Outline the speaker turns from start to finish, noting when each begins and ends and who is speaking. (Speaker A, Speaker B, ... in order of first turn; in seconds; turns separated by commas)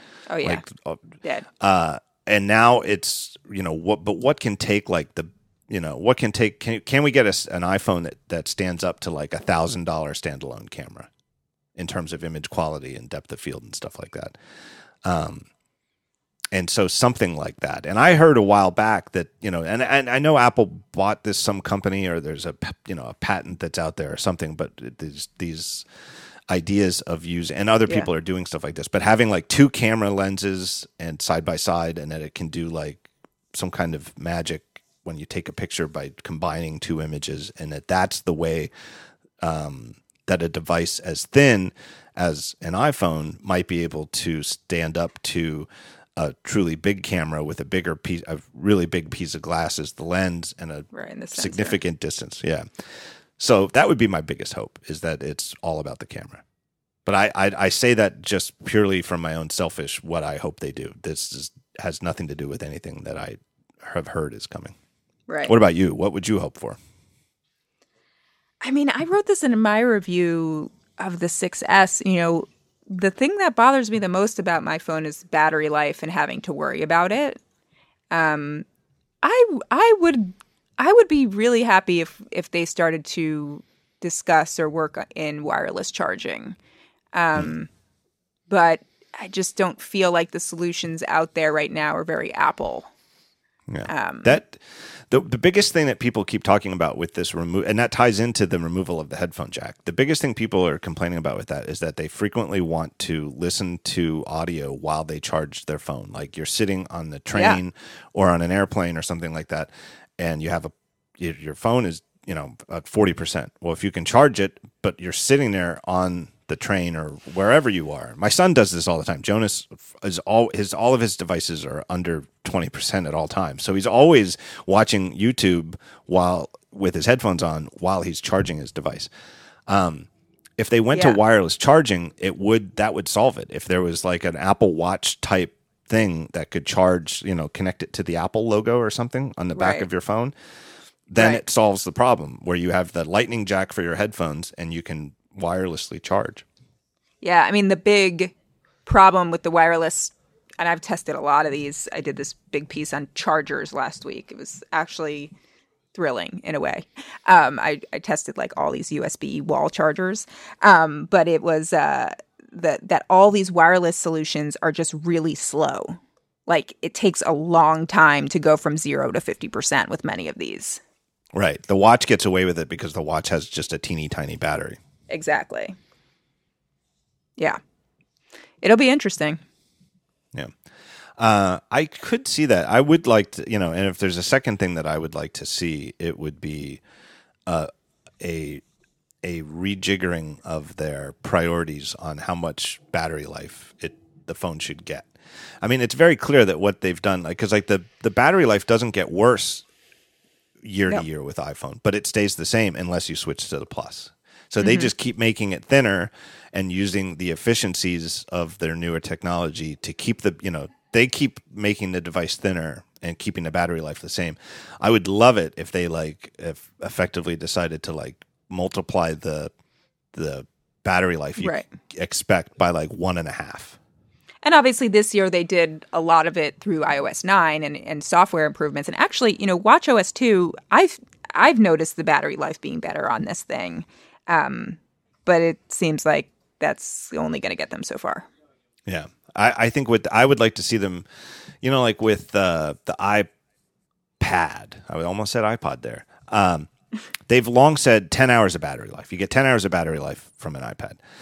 Speaker A: 0.3-0.6, Speaker B: 0.4-1.1, Speaker B: 1.6-11.1, Speaker B: 11.8-14.4, Speaker B: 15.0-15.5, Speaker B: 16.5-25.9, Speaker B: 26.5-38.7, Speaker B: 39.4-56.4, Speaker A: 50.9-51.8, Speaker B: 57.1-64.8, Speaker A: 65.3-65.5, Speaker B: 65.5-66.8, Speaker A: 68.6-77.4, Speaker A: 78.1-78.7, Speaker A: 79.2-86.6, Speaker A: 87.1-87.7, Speaker A: 88.5-92.9, Speaker B: 93.7-129.1, Speaker A: 93.9-94.4, Speaker A: 107.3-107.6, Speaker B: 129.7-140.3, Speaker A: 130.9-131.2, Speaker A: 139.6-139.9, Speaker B: 141.1-146.4, Speaker A: 141.2-141.4, Speaker A: 147.2-148.3, Speaker A: 148.9-155.3, Speaker A: 155.9-170.8, Speaker B: 171.3-174.8, Speaker A: 175.1-175.8, Speaker A: 178.6-179.4, Speaker B: 181.2-186.8, Speaker B: 188.2-188.6, Speaker B: 189.2-195.1, Speaker B: 195.6-199.7, Speaker B: 200.6-219.5, Speaker A: 204.6-204.9, Speaker B: 220.1-223.8, Speaker A: 221.4-221.7, Speaker A: 224.4-238.3, Speaker B: 238.9-241.1, Speaker B: 241.6-243.3, Speaker B: 244.2-246.7, Speaker B: 247.3-251.0